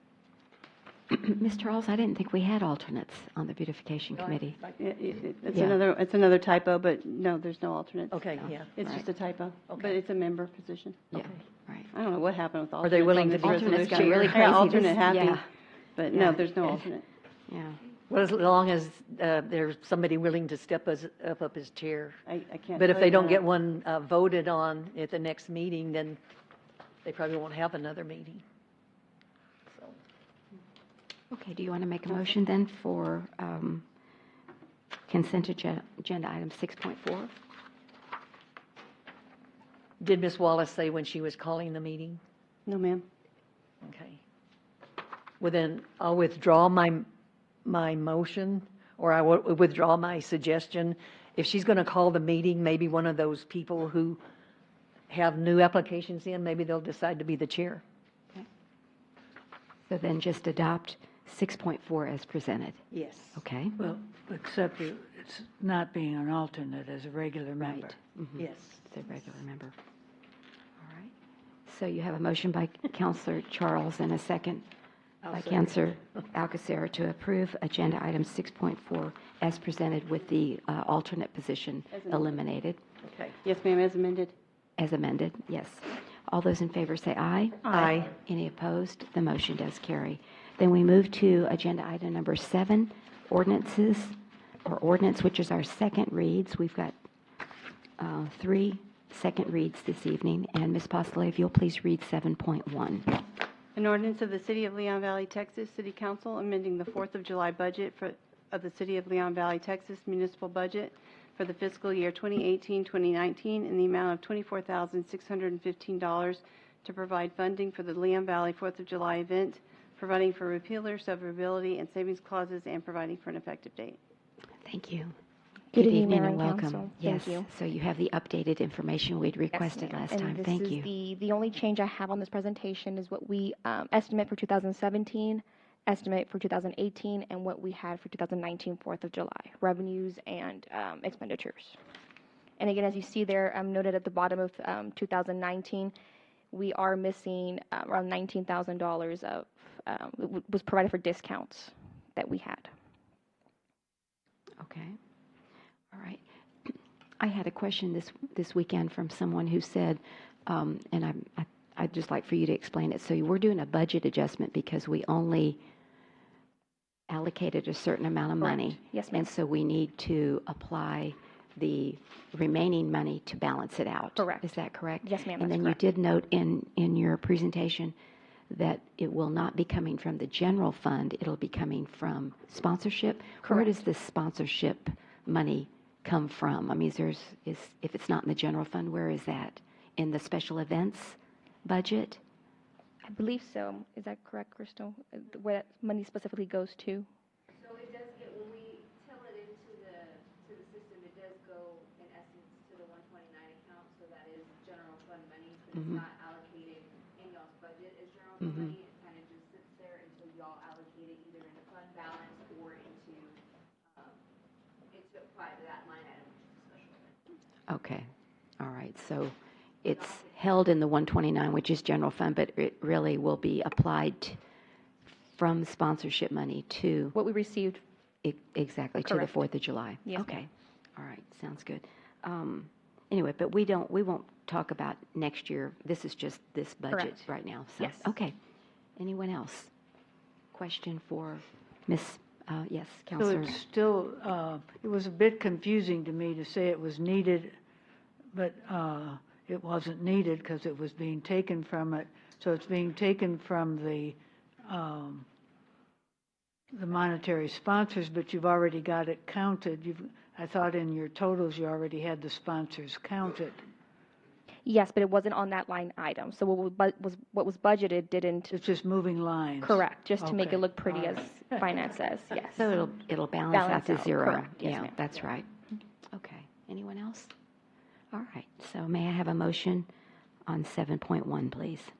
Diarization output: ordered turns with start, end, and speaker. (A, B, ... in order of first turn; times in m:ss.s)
0:01.1-0:04.6 A
0:04.2-0:04.8 B
0:04.8-0:11.1 C
0:05.5-0:05.8 A
0:08.1-0:08.7 B
0:09.7-0:10.0 B
0:11.1-0:11.9 A
0:11.1-0:11.4 B
0:11.9-0:17.0 C
0:12.8-0:14.7 B
0:13.4-0:15.4 A
0:17.5-0:17.8 A
0:18.1-0:22.2 B
0:22.2-0:23.4 C
0:22.7-0:26.2 B
0:27.0-0:28.4 B
0:29.7-0:29.9 B
0:31.3-0:33.8 A
0:35.1-0:37.3 A
0:40.0-0:42.2 B
0:42.7-0:43.0 C
0:43.8-0:44.2 B
0:45.4-0:47.1 B
0:47.6-0:54.2 B
0:55.1-0:57.8 B
0:59.9-1:02.8 A
1:02.9-1:03.4 B
1:03.4-1:03.8 A
1:03.8-1:08.0 D
1:07.6-1:09.7 A
1:08.4-1:08.8 B
1:10.8-1:11.1 A
1:11.6-1:14.7 A
1:15.3-1:22.8 A
1:21.9-1:22.3 C
1:23.0-1:23.4 B
1:23.4-1:24.3 C
1:24.8-1:36.9 A
1:27.6-1:28.1 B
1:38.0-1:43.2 A
1:43.7-2:04.0 C
2:04.6-2:05.2 A
2:05.7-2:07.5 E
2:05.7-2:10.9 A
2:09.5-2:21.8 E
2:22.6-2:25.9 E
2:26.5-2:32.7 E
2:34.6-2:35.0 A
2:35.9-2:45.6 A
2:47.1-2:57.9 A
2:48.4-2:49.3 E
2:54.2-2:55.8 E
2:58.5-3:12.2 A
3:03.4-3:03.8 E
3:13.0-3:17.1 E
3:17.5-3:33.4 F
3:28.4-3:28.7 A
3:34.9-3:37.1 F
3:37.7-3:38.1 A
3:38.6-3:44.4 A
3:45.2-3:47.2 A
3:47.1-3:47.8 E
3:48.2-3:58.3 A
3:49.0-3:49.3 E
3:50.0-3:50.4 E
3:56.9-3:57.2 E
3:57.8-3:58.1 E
3:59.0-3:59.7 A
4:00.5-4:03.6 A
4:03.2-4:07.5 D
4:08.3-4:15.2 D
4:16.7-4:23.6 D
4:24.6-4:28.6 E
4:28.5-4:31.3 D
4:29.6-4:32.7 E
4:32.5-4:35.5 A
4:33.5-4:35.0 E
4:36.1-4:37.3 A
4:38.1-4:39.9 A
4:40.5-4:41.9 A